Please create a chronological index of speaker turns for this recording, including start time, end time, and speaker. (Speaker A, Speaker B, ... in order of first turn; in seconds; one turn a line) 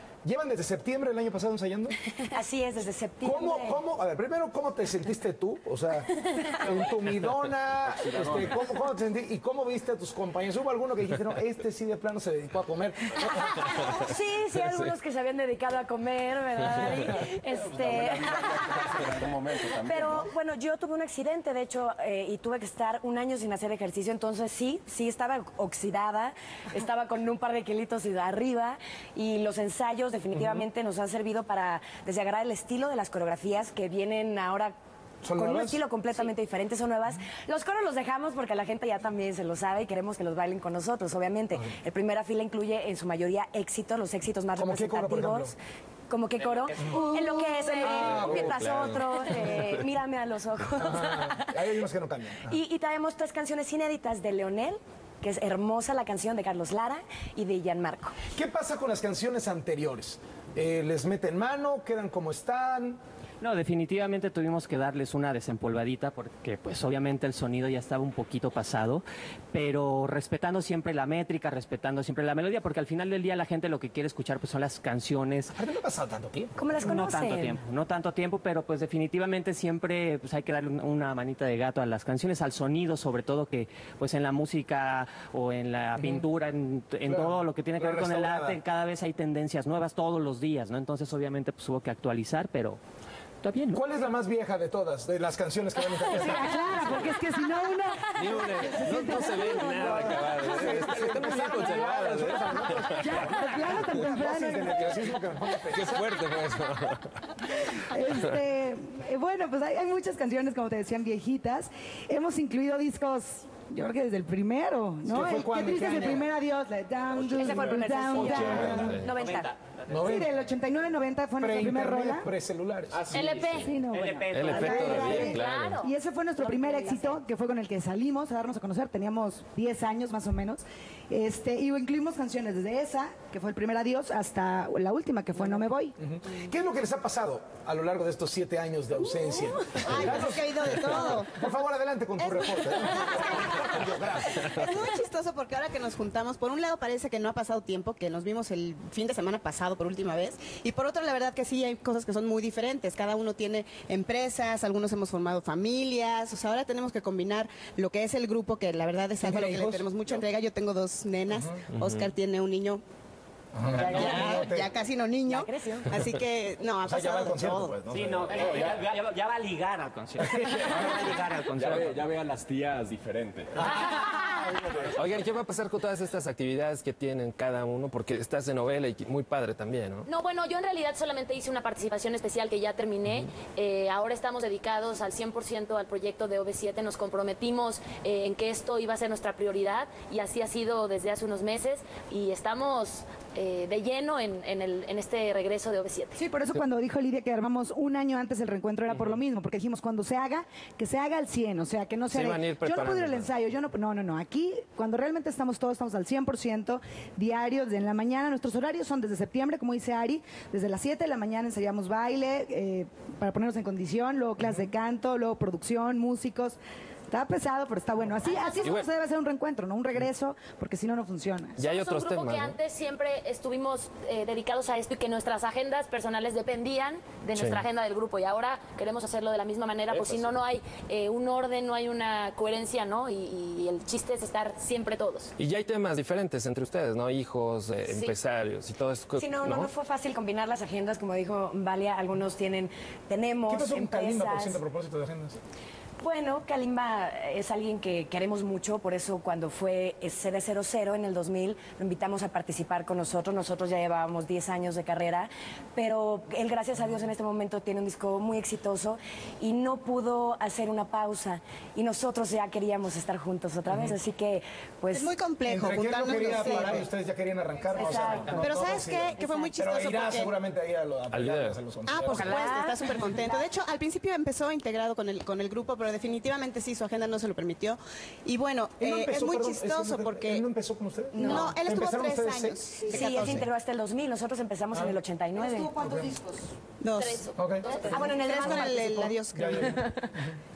Speaker A: 0.2-1.9
Speaker B: 2.3-3.8
Speaker A: 3.2-13.5
Speaker C: 8.1-8.4
Speaker B: 13.8-19.0
Speaker C: 17.5-20.3
Speaker B: 19.7-34.8
Speaker A: 35.2-35.8
Speaker B: 35.3-45.5
Speaker A: 44.6-45.5
Speaker B: 46.1-51.6
Speaker A: 47.8-48.6
Speaker D: 48.1-49.7
Speaker A: 50.8-52.6
Speaker B: 52.5-58.1
Speaker A: 58.4-63.0
Speaker E: 63.4-75.5
Speaker A: 75.5-76.5
Speaker B: 76.6-77.6
Speaker E: 76.8-92.8
Speaker A: 86.0-86.3
Speaker A: 87.0-88.6
Speaker E: 93.4-93.8
Speaker A: 93.7-97.0
Speaker F: 96.2-99.9
Speaker D: 98.1-103.5
Speaker A: 99.7-106.0
Speaker F: 103.0-105.1
Speaker D: 105.7-107.0
Speaker F: 107.9-118.9
Speaker A: 115.1-116.3
Speaker B: 117.3-119.5
Speaker A: 118.1-119.0
Speaker D: 118.8-119.2
Speaker E: 119.1-119.5
Speaker A: 119.9-120.3
Speaker F: 120.0-122.3
Speaker A: 121.4-123.4
Speaker G: 123.1-123.8
Speaker E: 123.4-125.1
Speaker F: 123.7-136.0
Speaker D: 124.3-125.8
Speaker G: 125.1-125.9
Speaker B: 126.4-127.1
Speaker A: 136.0-144.5
Speaker H: 139.7-141.4
Speaker H: 142.2-162.8
Speaker A: 159.2-159.9
Speaker D: 161.8-162.1
Speaker A: 163.5-164.7
Speaker H: 163.7-167.8
Speaker E: 164.0-164.3
Speaker B: 165.3-166.0
Speaker A: 166.8-168.4
Speaker E: 167.9-171.9
Speaker C: 168.3-168.7
Speaker C: 170.5-174.1
Speaker C: 174.6-174.9
Speaker D: 174.9-180.1
Speaker G: 180.1-196.2
Speaker F: 196.2-216.6
Speaker D: 198.9-199.2
Speaker D: 202.1-203.3
Speaker F: 217.1-221.6
Speaker G: 218.2-218.8
Speaker D: 218.6-218.9
Speaker D: 221.6-222.6
Speaker G: 221.6-235.3
Speaker D: 227.4-227.6
Speaker D: 230.0-230.2
Speaker D: 235.4-239.7
Speaker G: 237.8-238.2
Speaker B: 239.2-244.6
Speaker A: 243.5-245.4
Speaker B: 246.0-265.1
Speaker H: 264.9-266.9
Speaker A: 265.5-272.3
Speaker B: 267.7-268.6
Speaker H: 268.4-270.4
Speaker B: 269.2-269.6
Speaker D: 271.1-271.6
Speaker H: 271.9-280.5
Speaker E: 272.1-272.5
Speaker B: 272.2-272.8
Speaker A: 278.8-283.4
Speaker B: 281.1-281.6
Speaker H: 281.2-283.5
Speaker G: 281.2-281.5
Speaker B: 282.9-285.8
Speaker A: 284.7-285.0
Speaker F: 285.4-286.5
Speaker A: 285.8-286.1
Speaker H: 286.8-289.9
Speaker G: 286.9-288.2
Speaker A: 287.4-290.4
Speaker B: 287.9-289.1